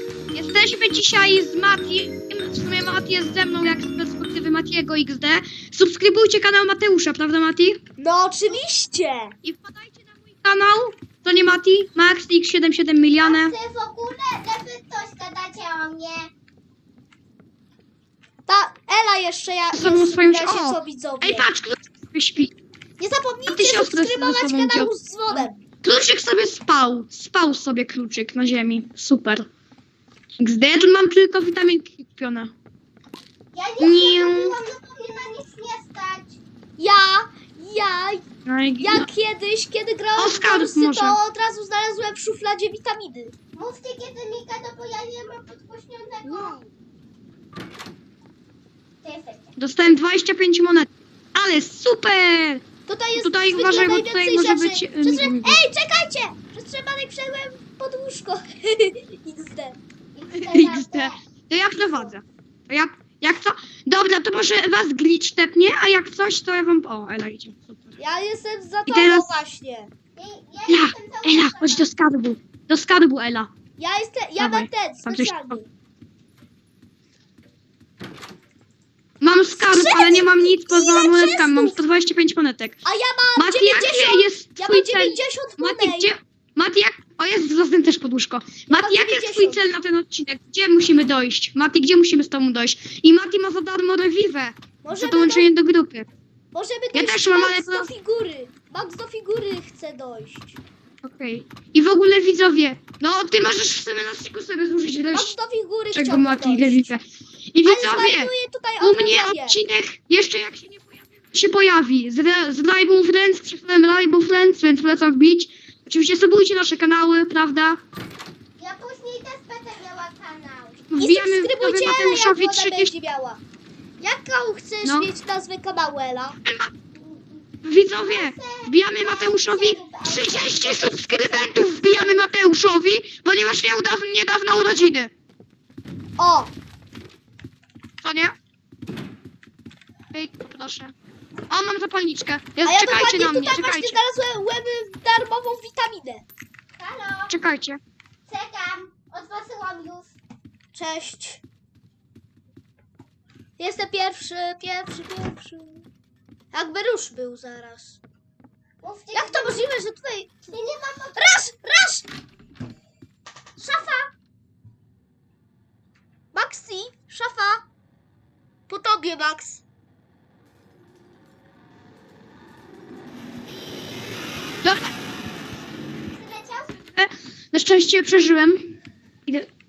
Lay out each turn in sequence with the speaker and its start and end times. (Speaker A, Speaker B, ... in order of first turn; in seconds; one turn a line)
Speaker A: 0.3-7.8
Speaker B: 8.0-9.3
Speaker A: 9.4-13.5
Speaker C: 13.2-16.3
Speaker B: 18.5-21.5
Speaker A: 19.7-22.5
Speaker B: 23.0-25.6
Speaker A: 23.5-29.5
Speaker A: 30.4-32.5
Speaker C: 33.5-36.4
Speaker A: 33.8-34.6
Speaker B: 36.8-38.2
Speaker A: 38.4-39.1
Speaker B: 38.8-43.3
Speaker A: 40.2-41.2
Speaker C: 43.5-46.6
Speaker A: 46.2-46.7
Speaker C: 49.0-49.5
Speaker A: 49.6-52.6
Speaker B: 52.9-59.8
Speaker A: 53.2-55.6
Speaker C: 60.1-61.2
Speaker A: 60.3-68.0
Speaker B: 68.0-69.9
Speaker A: 68.8-69.4
Speaker C: 70.2-71.9
Speaker A: 70.7-73.5
Speaker B: 73.8-75.7
Speaker A: 74.4-75.5
Speaker A: 79.2-82.8
Speaker B: 79.4-81.8
Speaker B: 82.8-86.1
Speaker A: 83.3-96.1
Speaker B: 88.7-89.6
Speaker B: 94.8-95.5
Speaker B: 96.5-100.6
Speaker A: 96.9-97.9
Speaker A: 101.0-105.3
Speaker B: 105.1-106.9
Speaker A: 105.9-107.0
Speaker A: 107.5-117.8
Speaker B: 107.6-109.6
Speaker C: 118.6-120.9
Speaker A: 120.9-122.9
Speaker B: 121.0-123.4
Speaker B: 124.0-126.4
Speaker A: 124.8-125.1
Speaker A: 126.4-126.7
Speaker C: 126.9-132.0
Speaker A: 127.6-135.1
Speaker B: 136.2-136.5
Speaker A: 138.0-138.3
Speaker A: 140.1-140.9
Speaker A: 141.5-144.0
Speaker B: 142.6-146.2
Speaker C: 146.8-147.3
Speaker A: 147.3-147.8
Speaker C: 148.3-150.1
Speaker B: 150.7-151.4
Speaker B: 153.6-155.8
Speaker B: 156.5-158.0
Speaker C: 158.8-159.7
Speaker B: 159.1-160.4
Speaker C: 160.5-161.2
Speaker B: 161.2-162.1
Speaker B: 163.6-164.1
Speaker B: 166.3-167.6
Speaker B: 168.7-169.6
Speaker A: 174.6-174.9
Speaker C: 176.1-176.8
Speaker A: 176.9-178.7